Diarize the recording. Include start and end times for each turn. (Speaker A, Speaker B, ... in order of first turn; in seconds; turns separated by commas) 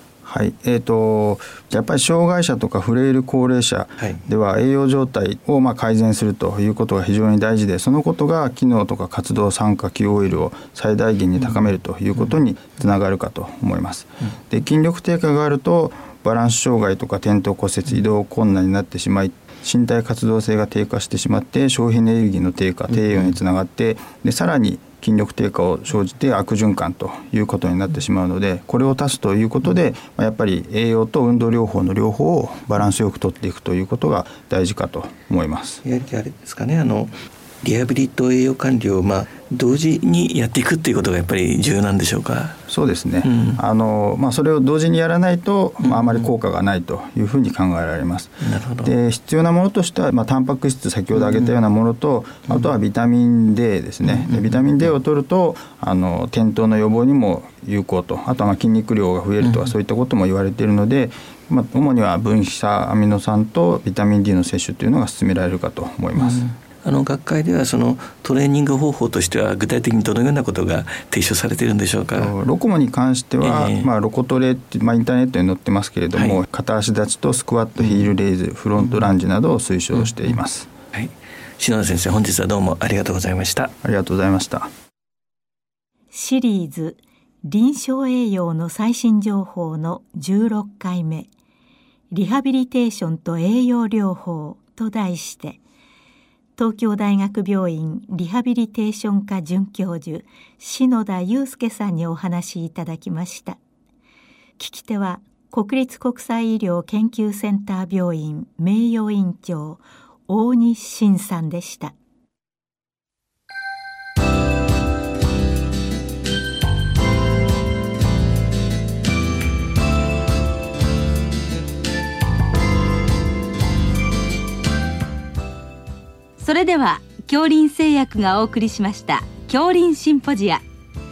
Speaker A: 0.2-35.8, Speaker B: 35.8-42.6, Speaker A: 42.7-66.5, Speaker B: 43.2-43.6, Speaker B: 45.8-46.2, Speaker B: 48.4-48.9, Speaker B: 54.0-54.8, Speaker B: 66.2-72.3, Speaker A: 72.2-80.7, Speaker B: 73.4-73.9, Speaker B: 76.1-76.4, Speaker B: 77.8-78.0, Speaker B: 80.9-83.7, Speaker A: 83.8-84.7, Speaker C: 86.1-91.3, Speaker C: 92.1-95.6, Speaker C: 96.6-103.6, Speaker C: 104.6-111.9, Speaker D: 126.4-130.6